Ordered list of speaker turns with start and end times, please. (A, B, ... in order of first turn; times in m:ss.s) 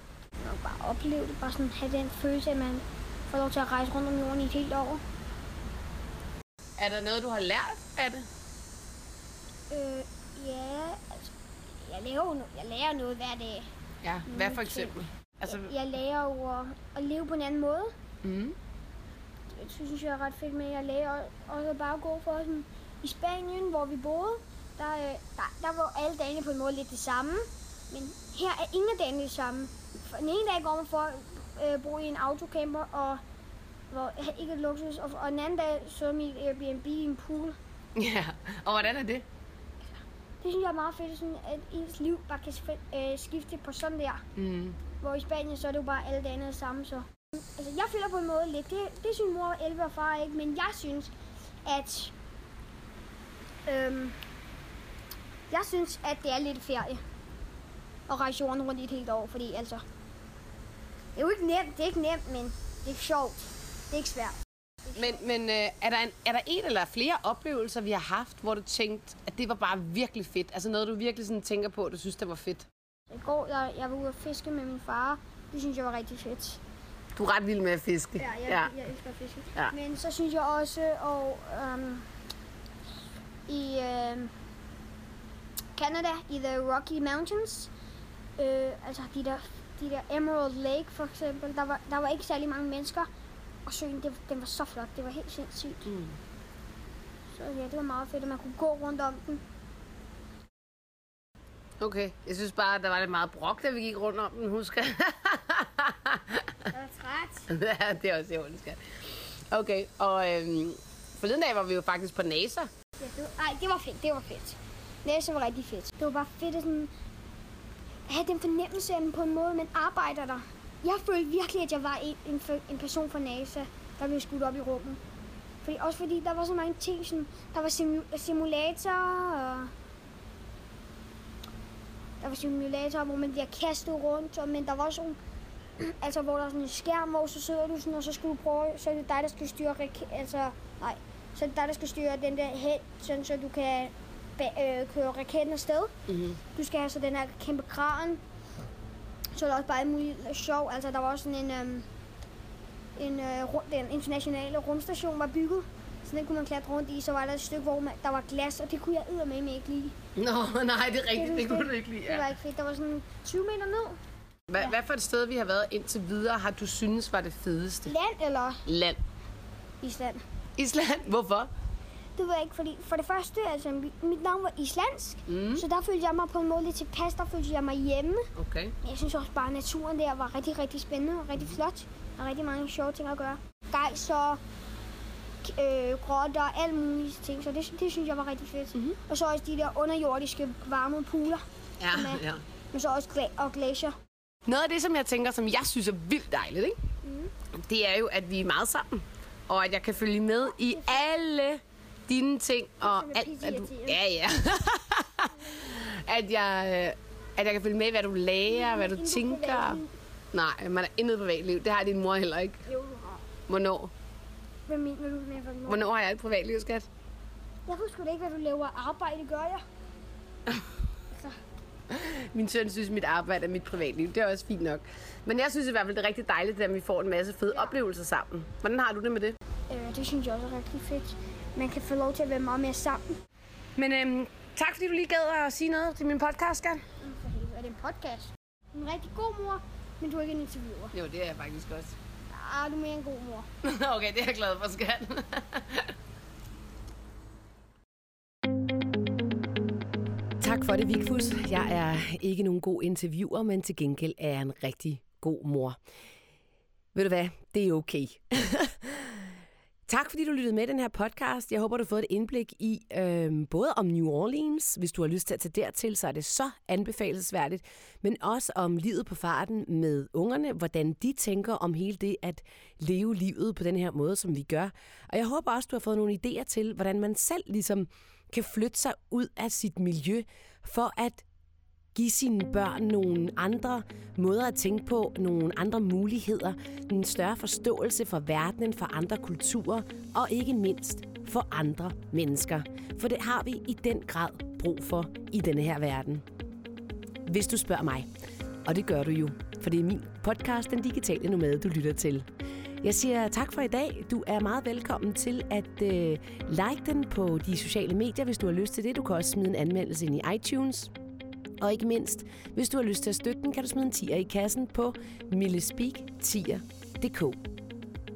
0:00.4-0:05.0 A
0:06.8-0:08.2 B
0:09.7-0:11.3 A
0:11.8-0:13.7 A
0:14.0-0:15.7 B
0:14.3-0:14.9 A
0:15.4-0:17.9 A
0:18.2-0:18.5 B
0:19.5-0:33.2 A
0:33.9-0:37.6 A
0:38.0-0:39.2 B
0:40.4-0:44.2 A
0:44.4-0:44.8 B
0:45.0-0:51.1 A
0:51.6-0:52.1 A
0:53.6-0:54.2 A
0:55.5-0:57.0 A
0:58.1-0:59.8 A
1:01.2-1:05.2 A
1:04.9-1:12.7 B
1:13.1-1:16.6 A
1:17.1-1:18.7 B
1:18.2-1:22.0 A
1:23.5-1:24.3 A
1:25.7-1:27.7 A
1:28.4-1:33.1 A
1:33.6-1:35.9 A
1:35.8-1:36.1 B
1:37.3-1:39.4 A
1:41.8-1:46.5 B
1:46.7-1:47.5 A
1:47.5-1:52.7 B
1:53.0-1:56.9 A
1:58.1-2:05.0 A
2:05.6-2:09.7 A
2:12.2-2:15.2 A
2:15.8-2:25.9 A
2:26.1-2:26.4 B
2:26.5-2:28.2 A
2:29.3-2:31.9 A
2:33.0-2:39.9 A
2:40.2-2:42.3 B
2:41.1-2:44.0 A
2:44.5-2:47.9 B
2:47.8-2:48.6 A
2:48.6-2:49.0 B
2:49.8-2:50.2 A
2:50.6-2:51.5 B
2:52.2-2:58.3 A
2:55.3-2:55.6 B
2:58.4-2:58.7 B
2:58.8-3:04.4 A
3:05.4-3:13.9 A
3:11.8-3:12.4 B
3:14.4-3:16.8 B
3:17.0-3:17.3 A
3:17.5-3:29.8 B
3:22.8-3:24.0 A
3:28.5-3:29.9 A
3:30.3-3:32.6 B
3:32.7-3:33.2 A
3:33.5-3:33.9 B
3:34.7-3:35.8 A
3:35.7-3:36.9 B
3:37.6-3:39.6 A
3:41.1-3:41.4 A
3:41.9-3:49.4 B
3:49.7-3:53.2 A
3:53.8-3:56.8 B
3:57.0-4:00.9 A
4:00.9-4:02.0 B
4:02.3-4:03.5 A
4:03.6-4:05.9 B
4:10.4-4:15.8 B
4:16.9-4:19.3 B
4:19.9-4:41.2 B
4:41.9-4:56.2 B
4:57.2-4:58.1 B
4:58.6-5:02.3 B
5:02.8-5:10.9 B
5:11.6-5:17.4 B